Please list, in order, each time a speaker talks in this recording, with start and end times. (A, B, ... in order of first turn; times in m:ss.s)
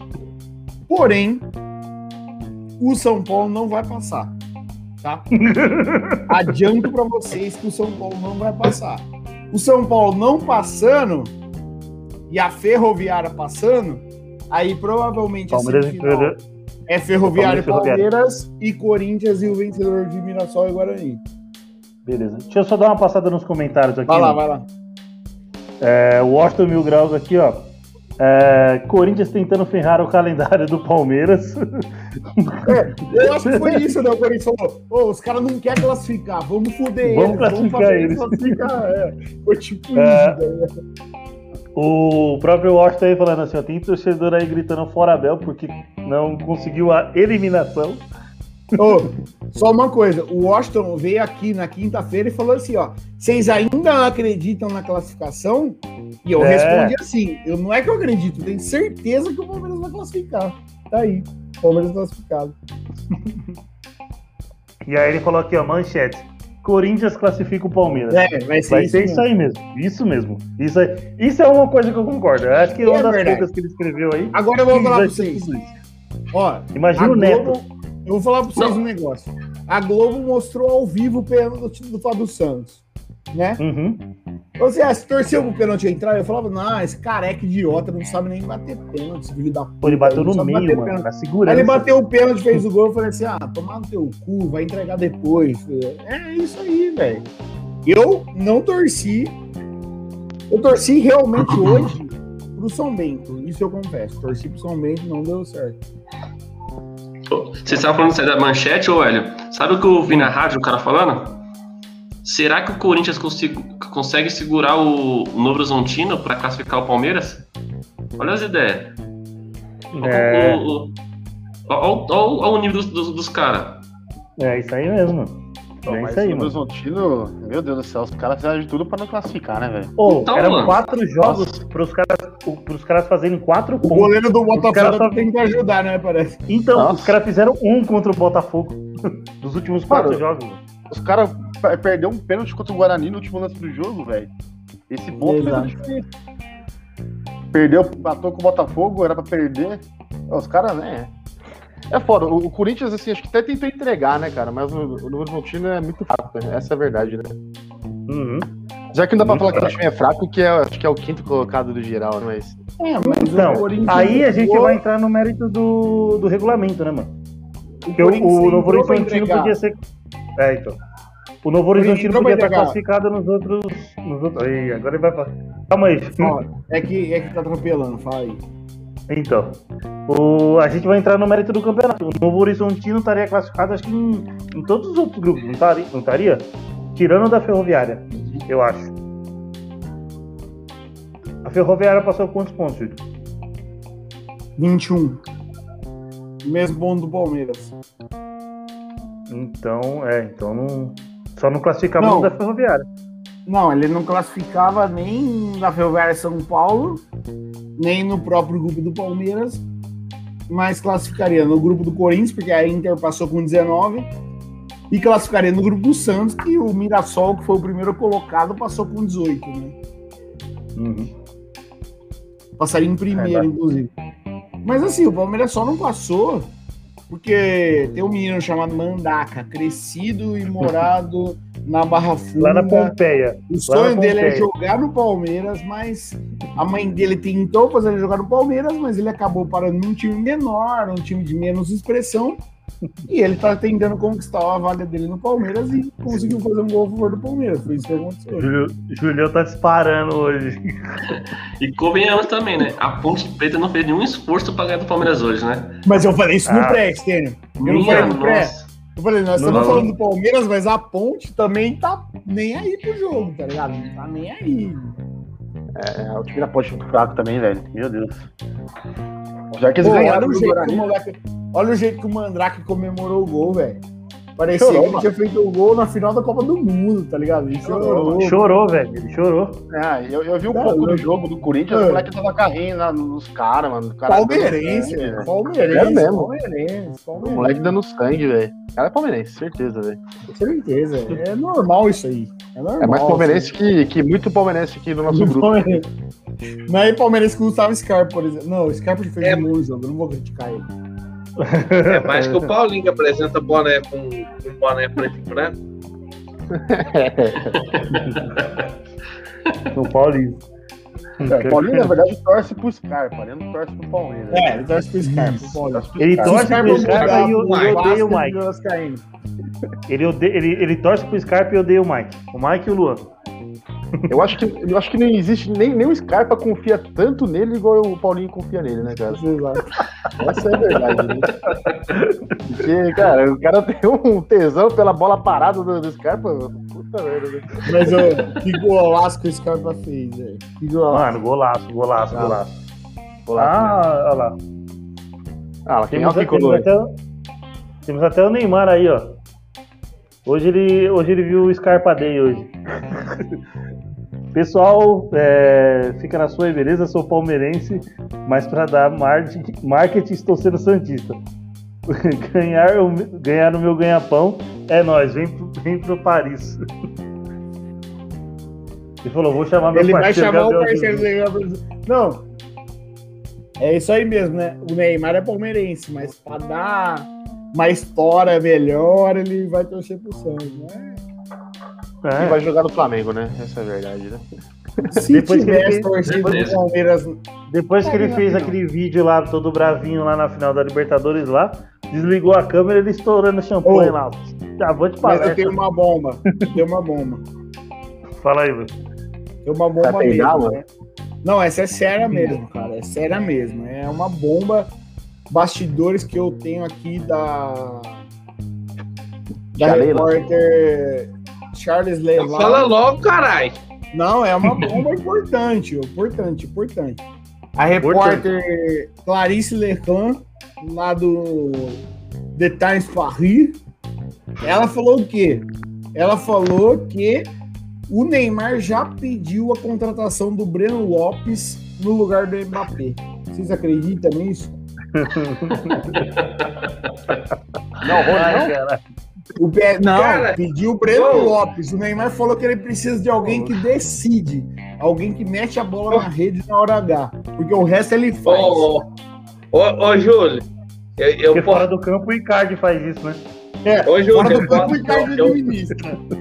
0:00.9-0:01.5 A
0:02.8-0:04.4 A
0:05.0-0:05.3 A
0:05.4-0:06.5 B
0:06.3-0:11.3 A
0:12.3-0:16.3 A
0:15.5-0:16.4 B
0:16.9-0:21.2 A
0:17.2-0:18.1 B
0:22.1-0:24.4 B
0:24.1-0:24.7 A
0:25.8-0:31.6 B
0:32.4-0:32.7 B
0:32.7-0:40.7 A
0:33.4-0:33.8 B
0:37.0-0:38.6 B
0:40.0-0:40.4 B
0:41.8-0:48.1 B
0:48.8-1:02.6 A
0:56.4-0:57.0 B
1:04.9-1:15.7 B
1:08.1-1:09.3 A
1:12.8-1:13.5 A
1:14.3-1:15.4 A
1:16.3-1:22.8 A
1:16.7-1:17.6 B
1:23.3-1:23.6 A
1:23.6-1:24.0 B
1:24.6-1:37.2 A
1:29.8-1:31.9 B
1:37.8-1:39.4 A
1:40.5-1:45.8 A
1:47.3-1:51.4 C
1:52.2-1:57.5 C
1:58.2-1:59.0 C
1:59.9-2:00.6 B
2:00.0-2:01.0 C
2:01.7-2:03.8 C
2:04.4-2:06.6 B
2:05.8-2:10.0 D
2:10.0-2:15.2 B
2:10.0-2:10.8 C
2:11.2-2:11.5 D
2:13.8-2:16.4 A
2:16.5-2:18.8 B
2:16.8-2:17.2 D
2:19.4-2:20.6 B
2:19.9-2:20.2 D
2:20.9-2:24.3 D
2:24.9-2:26.1 D
2:25.2-2:25.7 A
2:27.5-2:31.1 D
2:31.9-2:37.4 D
2:38.1-2:38.5 B
2:38.9-2:42.7 D
2:39.2-2:39.7 B
2:42.8-2:44.8 A
2:43.3-2:47.1 B
2:43.4-2:43.7 D
2:47.9-2:49.6 A
2:48.0-2:49.8 B
2:50.4-2:50.8 B
2:51.4-2:56.3 B
2:51.8-2:52.8 A
2:56.2-2:58.4 A
2:59.1-3:08.9 B
3:11.4-3:13.0 B
3:14.6-3:15.2 A
3:16.4-3:17.7 A
3:19.3-3:22.9 B
3:22.0-3:22.4 A
3:23.5-3:27.0 A
3:27.8-3:29.6 A
3:30.5-3:34.1 A
3:34.9-3:39.8 A
3:40.8-3:41.1 B
3:42.6-3:43.9 A
3:43.2-3:43.5 B
3:44.6-3:46.5 A
3:47.1-3:53.0 A
3:52.4-3:54.5 B
3:53.5-4:02.4 A
4:03.1-4:08.5 A
4:08.4-4:11.0 B
4:11.1-4:15.8 C
4:15.9-4:25.0 A
4:16.5-4:16.8 B
4:17.6-4:18.7 C
4:17.8-4:18.2 B
4:19.4-4:19.9 B
4:19.5-4:19.9 C
4:25.8-4:28.3 D
4:29.5-4:30.9 D
4:29.8-4:33.8 A
4:34.4-4:38.4 A
4:34.5-4:35.1 D
4:37.6-4:38.2 D
4:38.2-4:39.6 B
4:39.7-4:46.3 D
4:40.5-4:41.1 A
4:41.7-4:42.0 A
4:44.1-4:47.7 A
4:47.2-4:50.0 D
4:50.3-4:53.5 A
4:52.8-4:55.8 D
4:55.1-4:55.9 A
4:56.7-5:00.7 A
4:59.2-4:59.5 E
5:01.4-5:02.5 B
5:01.9-5:05.6 E
5:06.5-5:08.0 D
5:07.7-5:08.4 C
5:07.9-5:08.4 B
5:09.7-5:10.4 B
5:11.2-5:12.0 B
5:11.3-5:17.0 D
5:14.3-5:19.0 A
5:16.0-5:18.4 B
5:16.8-5:18.0 E
5:19.9-5:23.1 B
5:24.1-5:29.2 D
5:29.1-5:29.8 A
5:30.2-5:31.3 D
5:31.9-5:32.4 B
5:32.5-5:37.9 D
5:37.7-5:41.2 A
5:40.9-5:42.6 B
5:42.1-5:42.4 D
5:43.3-5:43.8 D
5:43.4-5:44.4 B
5:45.7-5:46.7 D
5:45.9-5:46.9 B
5:47.9-5:49.2 B
5:50.2-5:52.5 B
5:54.3-6:01.2 B
6:01.9-6:06.6 B
6:09.0-6:11.1 B
6:09.7-6:12.2 A
6:13.6-6:21.0 A
6:22.0-6:22.4 B
6:22.2-6:24.2 D
6:24.9-6:27.2 A
6:25.1-6:25.9 B
6:26.1-6:26.6 C
6:27.5-6:35.6 B
6:27.8-6:28.5 A
6:33.6-6:34.0 A
6:35.0-6:37.3 A
6:38.2-6:38.7 B
6:39.4-6:40.6 A
6:39.8-6:40.6 D
6:41.2-6:44.7 A
6:42.0-6:42.3 B
6:45.3-6:48.0 A
6:49.5-6:50.2 D
6:49.6-6:52.7 A
6:52.2-6:53.6 E
6:53.9-6:57.0 A
6:57.6-7:01.8 A
6:57.8-6:58.3 B
7:02.4-7:03.6 A
7:04.4-7:07.3 A
7:07.9-7:14.6 A
7:14.9-7:16.1 B
7:15.6-7:17.2 C
7:17.8-7:18.5 D
7:18.0-7:18.8 B
7:18.2-7:18.5 A
7:19.4-7:28.7 A
7:19.9-7:21.4 E
7:23.2-7:23.6 B
7:28.3-7:28.8 E
7:29.5-7:30.5 E
7:31.0-7:31.6 E
7:31.3-7:33.2 B
7:33.6-7:36.0 A
7:33.9-7:35.4 E